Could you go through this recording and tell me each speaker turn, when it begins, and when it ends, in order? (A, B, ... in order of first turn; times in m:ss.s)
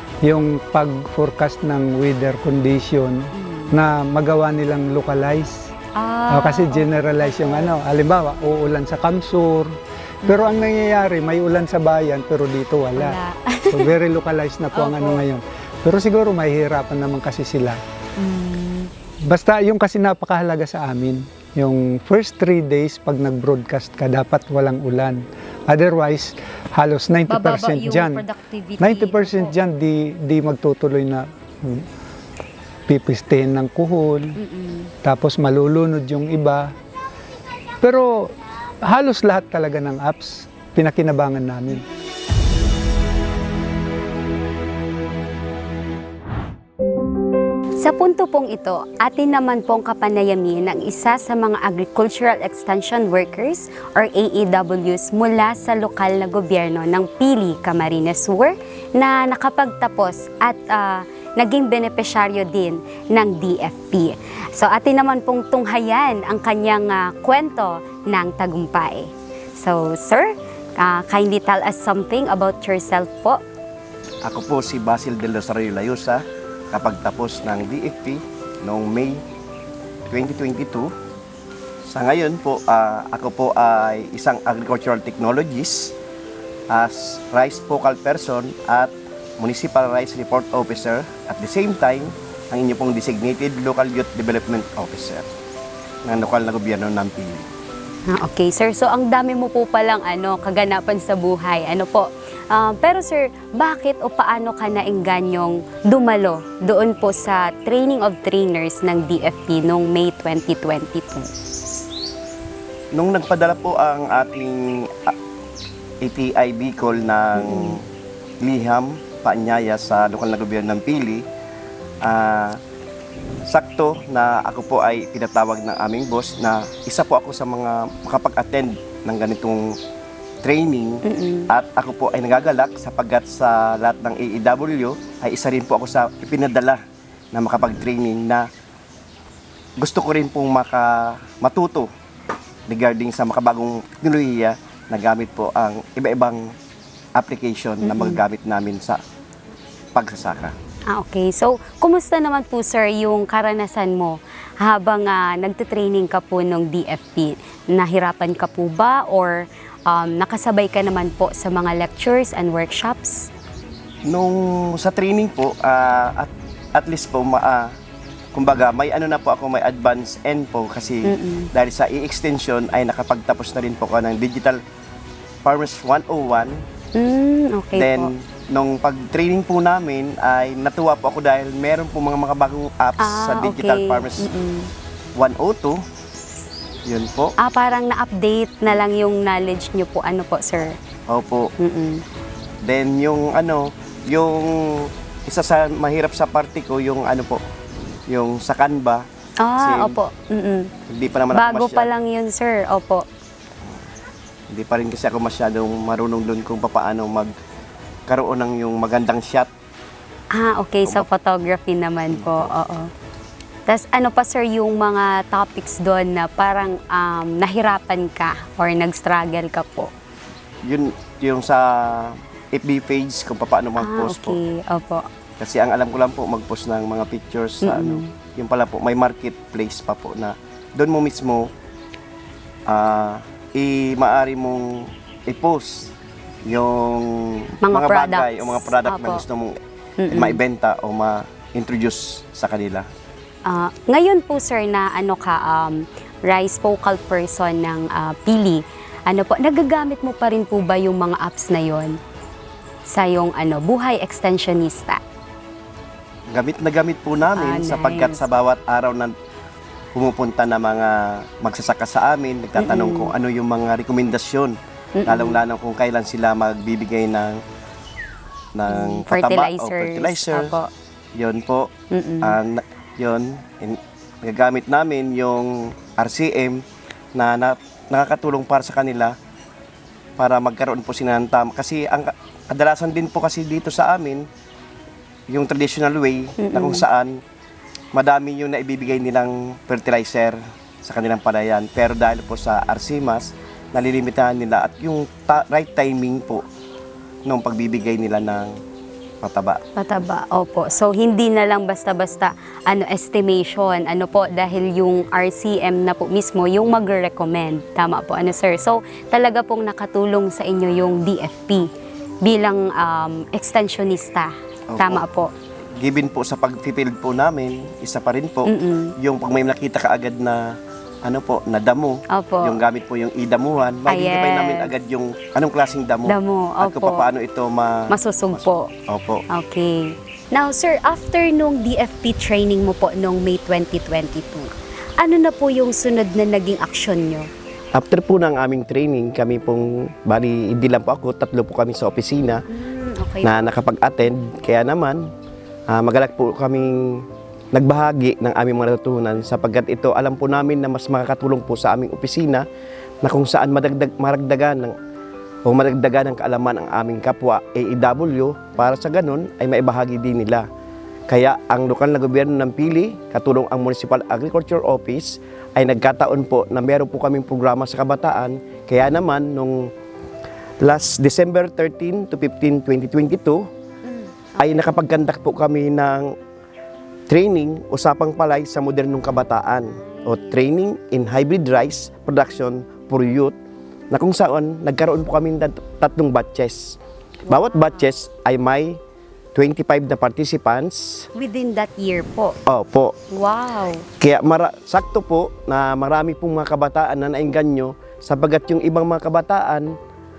0:00.2-0:05.7 A
0:03.3-0:03.7 B
0:06.0-0:07.7 B
0:06.3-0:13.2 A
0:10.2-0:10.5 B
0:13.0-0:13.9 B
0:13.7-0:17.8 A
0:14.7-0:15.2 B
0:18.2-0:18.9 B
0:19.2-0:28.2 A
0:27.3-0:29.6 B
0:28.8-0:31.9 A
0:32.9-0:34.4 A
0:34.4-0:34.9 B
0:35.0-0:36.7 A
0:37.8-0:38.3 A
0:38.8-0:41.8 A
0:47.8-1:13.4 B
1:14.2-1:19.2 C
1:20.1-1:20.9 C
1:21.9-1:25.9 C
1:26.7-1:35.2 C
1:36.0-1:37.5 C
1:38.1-1:51.3 B
1:52.9-1:55.2 C
1:56.0-1:57.8 C
1:57.4-1:57.8 B
1:58.4-2:01.2 C
2:02.0-2:02.6 C
2:03.5-2:09.8 C
2:10.4-2:16.8 C
2:11.0-2:11.5 B
2:17.3-2:18.5 C
2:19.8-2:21.9 C
2:22.7-2:26.5 C
2:27.1-2:29.0 C
2:27.8-2:28.2 B
2:29.9-2:30.5 C
2:30.9-2:43.3 B
2:44.0-2:47.7 C
2:48.3-2:54.6 C
2:51.0-2:51.5 B
2:55.4-2:56.6 C
2:56.9-2:58.1 B
2:57.7-3:04.3 C
3:03.0-3:04.7 B
3:05.1-3:05.8 C
3:06.8-3:07.3 C
3:07.4-3:10.8 B
3:11.1-3:11.5 C
3:11.6-3:12.0 B
3:12.6-3:17.4 C
3:18.1-3:19.0 C
3:19.4-3:20.7 B
3:19.6-3:19.9 C
3:20.9-3:21.9 C
3:21.3-3:23.0 B
3:24.5-3:27.3 C
3:28.1-3:29.5 C
3:30.3-3:32.9 B
3:32.2-3:32.5 C
3:33.7-3:39.9 B
3:40.6-3:44.4 C
3:43.8-3:45.1 B
3:45.4-3:51.5 C
3:47.6-3:48.1 B
3:52.7-3:55.9 C
3:56.4-3:59.6 C
3:57.6-3:59.2 B
4:00.0-4:00.4 B
4:00.1-4:02.9 C
4:03.4-4:12.0 B
4:12.9-4:15.0 B
4:16.3-4:19.1 C
4:17.4-4:18.3 B
4:19.9-4:27.4 C
4:22.6-4:23.1 B
4:25.0-4:25.4 B
4:28.5-4:30.5 C
4:28.7-4:30.7 B
4:31.1-4:31.7 C
4:31.9-4:32.4 B
4:32.2-4:36.6 C
4:37.1-4:39.2 C
4:40.2-4:44.3 C
4:45.3-4:47.2 C
4:46.4-4:46.8 B
4:47.9-4:56.4 C
4:57.2-4:58.6 C
4:59.2-4:59.6 C
4:59.8-5:11.7 B
5:12.2-5:15.3 B
5:14.7-5:15.0 C
5:15.8-5:29.2 C
5:18.5-5:18.9 B
5:22.1-5:22.6 B
5:23.9-5:24.7 B
5:26.1-5:27.0 B
5:27.9-5:28.7 B
5:29.3-5:37.3 B
5:37.7-5:42.4 C
5:42.5-5:43.4 B
5:43.2-5:45.0 C
5:45.7-5:52.4 C
5:53.0-5:54.8 C
5:55.4-6:00.4 C
6:01.1-6:09.7 C
6:10.6-6:13.5 C
6:13.8-6:14.8 B
6:14.4-6:16.1 C
6:17.1-6:23.3 C
6:19.7-6:20.4 B
6:23.9-6:26.8 C
6:27.2-6:27.9 B
6:27.3-6:28.8 C
6:29.3-6:31.1 C
6:31.2-6:32.4 B
6:32.5-6:32.9 C
6:33.1-6:33.9 B
6:34.0-6:39.8 C